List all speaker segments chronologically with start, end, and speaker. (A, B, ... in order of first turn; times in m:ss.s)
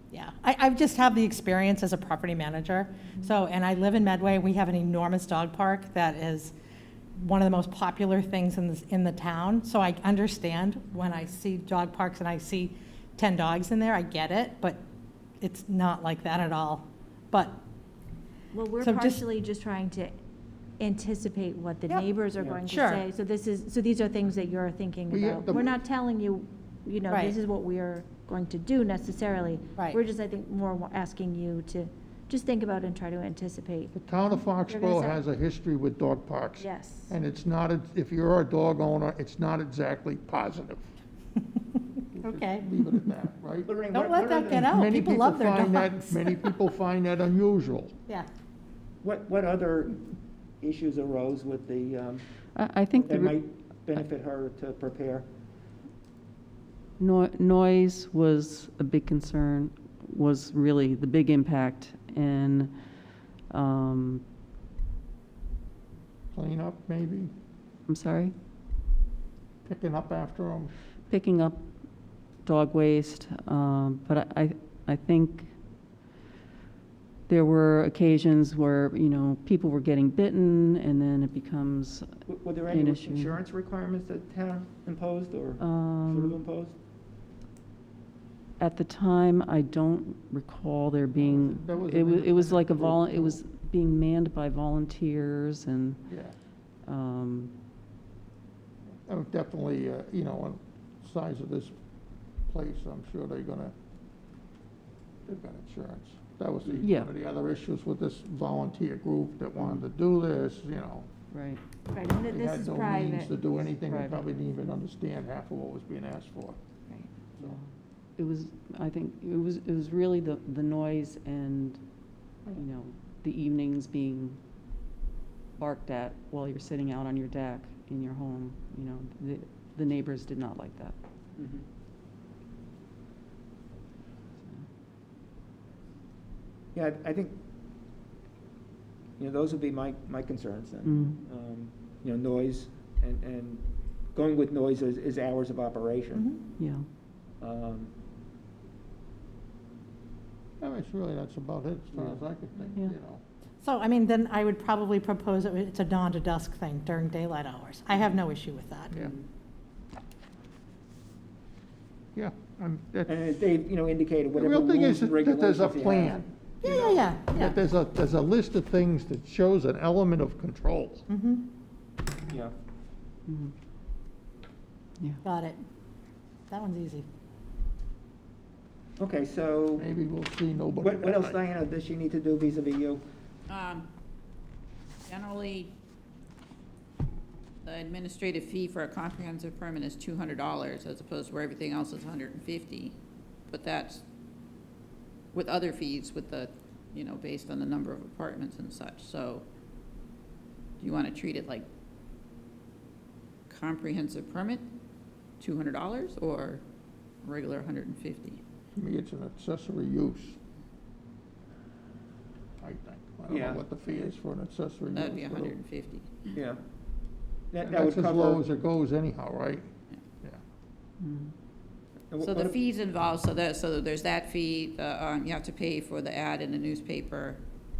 0:00.1-0:06.5 A
0:07.2-0:14.8 A
0:15.4-0:17.6 A
0:18.5-0:20.2 B
0:18.8-0:19.2 A
0:20.8-0:34.0 B
0:22.6-0:23.0 A
0:25.1-0:25.7 C
0:33.9-0:40.9 C
0:34.5-0:35.2 B
0:36.6-0:37.2 B
0:42.1-0:43.7 C
0:42.2-0:42.6 A
0:43.6-0:44.7 D
0:43.9-0:46.5 A
0:44.5-0:47.9 C
0:49.0-0:50.0 D
0:50.6-0:52.2 D
0:52.6-0:53.4 E
0:52.9-0:55.2 D
0:57.0-1:02.7 E
1:03.5-1:04.2 E
1:06.3-1:07.3 C
1:07.9-1:08.3 E
1:09.6-1:10.7 C
1:11.1-1:11.6 E
1:12.4-1:15.5 E
1:17.3-1:23.4 E
1:22.3-1:26.7 D
1:25.6-1:26.4 E
1:28.6-1:36.0 E
1:31.1-1:33.4 C
1:36.1-1:36.3 C
1:36.8-1:37.5 E
1:39.0-1:41.7 C
1:42.5-1:43.7 C
1:45.2-1:51.1 C
1:46.7-1:47.1 E
1:51.3-1:51.6 E
1:51.9-1:53.4 B
1:52.3-1:56.6 C
1:53.9-1:54.2 E
1:57.4-2:01.8 E
2:02.5-2:04.4 E
2:05.6-2:11.0 E
2:11.4-2:11.6 D
2:16.7-2:17.3 D
2:19.2-2:26.3 D
2:20.8-2:21.2 E
2:26.1-2:26.4 A
2:26.6-2:26.8 E
2:27.4-2:27.9 D
2:30.6-2:33.2 C
2:33.6-2:38.9 A
2:42.1-2:43.1 C
2:43.1-2:46.2 D
2:44.3-2:51.1 C
2:46.6-2:47.6 A
2:51.1-2:51.5 A
2:53.3-2:53.5 E
2:55.2-2:55.6 A
2:56.5-2:57.0 A
2:59.0-2:59.9 D
2:59.8-3:01.4 C
3:00.8-3:03.0 D
3:03.5-3:03.9 F
3:05.0-3:05.7 F
3:07.6-3:13.0 F
3:13.5-3:14.0 F
3:15.3-3:19.4 F
3:20.8-3:21.7 F
3:23.5-3:24.6 F
3:25.4-3:26.6 F
3:27.2-3:28.4 F
3:28.7-3:30.4 C
3:32.6-3:35.5 C
3:33.3-3:33.6 D
3:34.9-3:36.4 F
3:36.3-3:36.6 D
3:37.5-3:38.4 D
3:37.6-3:39.7 C
3:41.0-3:41.3 E
3:42.1-3:42.6 D
3:42.2-3:47.4 F